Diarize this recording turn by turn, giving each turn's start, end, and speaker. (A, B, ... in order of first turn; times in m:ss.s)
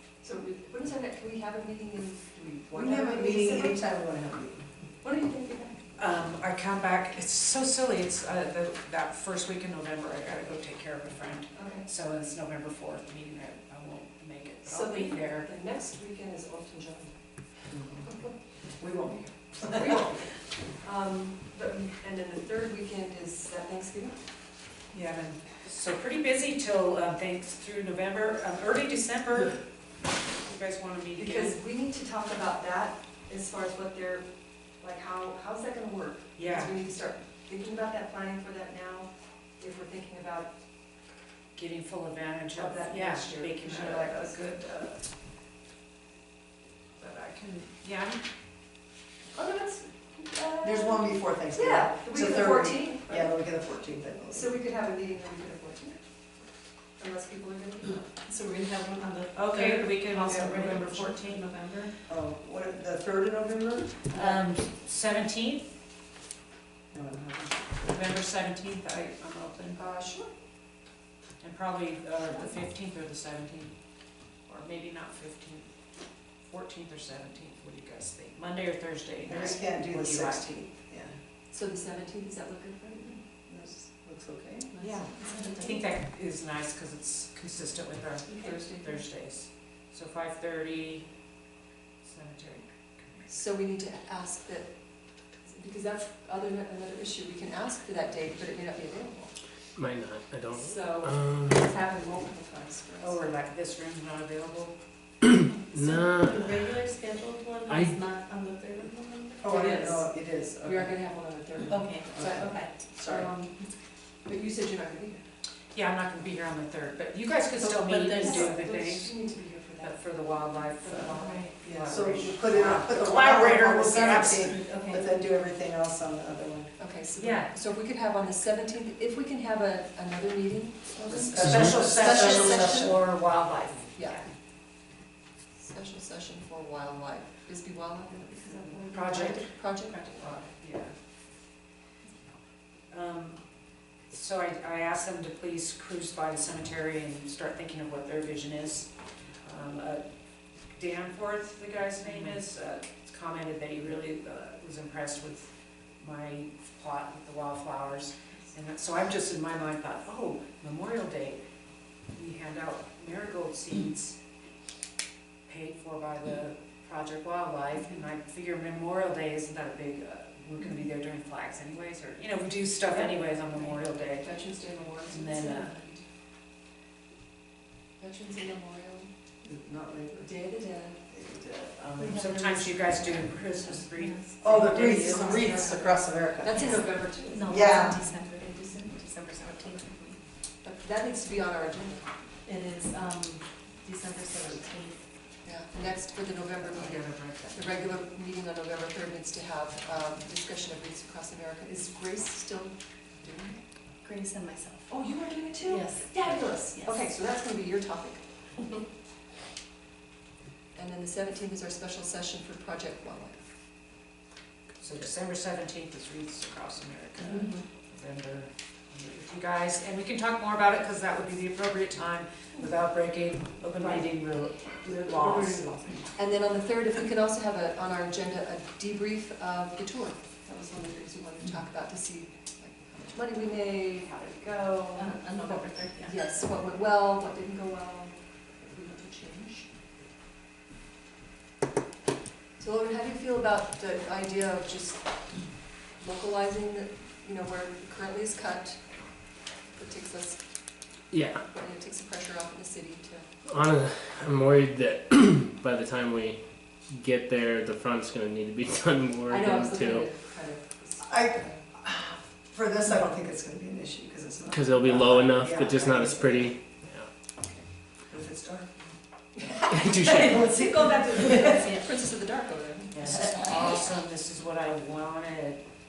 0:00.2-0:03.8 A
0:02.7-0:04.6 B
0:05.0-0:05.8 A
0:06.0-0:15.5 C
0:11.5-0:11.8 A
0:14.6-0:17.5 A
0:17.7-0:20.1 B
0:19.7-0:24.2 A
0:24.9-0:29.6 C
0:30.4-0:31.6 C
0:31.1-0:40.6 A
0:36.4-0:36.8 C
0:41.5-0:45.0 C
0:42.5-0:44.5 A
0:47.0-0:48.2 C
0:49.3-0:53.3 A
0:50.6-0:54.5 B
0:54.3-0:58.1 A
0:58.2-1:01.9 D
0:59.3-1:01.5 C
1:02.1-1:04.0 B
1:04.1-1:04.5 D
1:04.1-1:05.7 C
1:06.9-1:07.9 B
1:07.8-1:09.8 C
1:09.7-1:10.3 A
1:11.4-1:20.5 C
1:19.2-1:21.2 B
1:21.5-1:23.2 A
1:23.4-1:24.7 B
1:24.7-1:25.7 A
1:24.8-1:31.2 C
1:25.2-1:25.8 D
1:28.3-1:29.0 A
1:32.0-1:33.3 C
1:33.3-1:39.4 A
1:39.7-1:41.6 E
1:40.5-1:43.2 A
1:43.0-1:44.7 C
1:45.7-1:46.4 E
1:45.7-1:49.7 D
1:47.7-1:47.9 E
1:49.4-1:51.2 B
1:49.4-1:55.2 A
1:51.7-1:52.8 D
1:51.7-1:53.3 B
1:55.7-2:04.6 C
1:57.6-1:58.6 D
1:58.1-2:01.4 A
2:01.2-2:01.5 D
2:01.6-2:06.7 B
2:04.4-2:05.1 D
2:06.8-2:13.2 A
2:07.2-2:07.5 C
2:11.0-2:13.0 B
2:11.2-2:14.3 C
2:11.4-2:11.8 E
2:13.9-2:14.2 A
2:15.5-2:20.4 A
2:18.8-2:20.9 C
2:22.9-2:23.4 C
2:24.0-2:30.0 C
2:30.6-2:41.4 C
2:42.1-2:44.2 C
2:45.4-2:54.3 C
2:52.9-2:56.0 A
2:55.0-2:55.8 C
2:58.0-2:59.1 A
2:59.4-3:00.3 B
3:00.1-3:01.0 A
3:01.1-3:01.9 B
3:01.9-3:05.5 C
3:02.0-3:06.0 D
3:04.4-3:06.9 B
3:05.2-3:07.8 A
3:06.5-3:10.2 D
3:07.5-3:08.0 B
3:10.6-3:12.1 A
3:12.4-3:15.1 D
3:15.4-3:23.5 A
3:16.7-3:17.8 C
3:24.0-3:24.9 D
3:24.9-3:28.2 A
3:25.6-3:27.0 D
3:30.7-3:33.5 A
3:34.8-3:46.1 C
3:37.2-3:37.6 D
3:43.7-3:44.1 D
3:45.0-3:45.9 D
3:46.2-3:59.7 A
3:54.9-3:56.1 D
4:02.6-4:10.9 A
4:11.1-4:11.4 E
4:11.5-4:13.3 A
4:13.4-4:20.1 E
4:19.3-4:21.6 A
4:21.0-4:26.6 B
4:24.5-4:27.1 E
4:27.4-4:27.7 A
4:28.0-4:28.7 B
4:29.3-4:33.9 A
4:29.7-4:30.5 E
4:30.0-4:31.9 D
4:32.9-4:35.6 C
4:33.0-4:33.6 D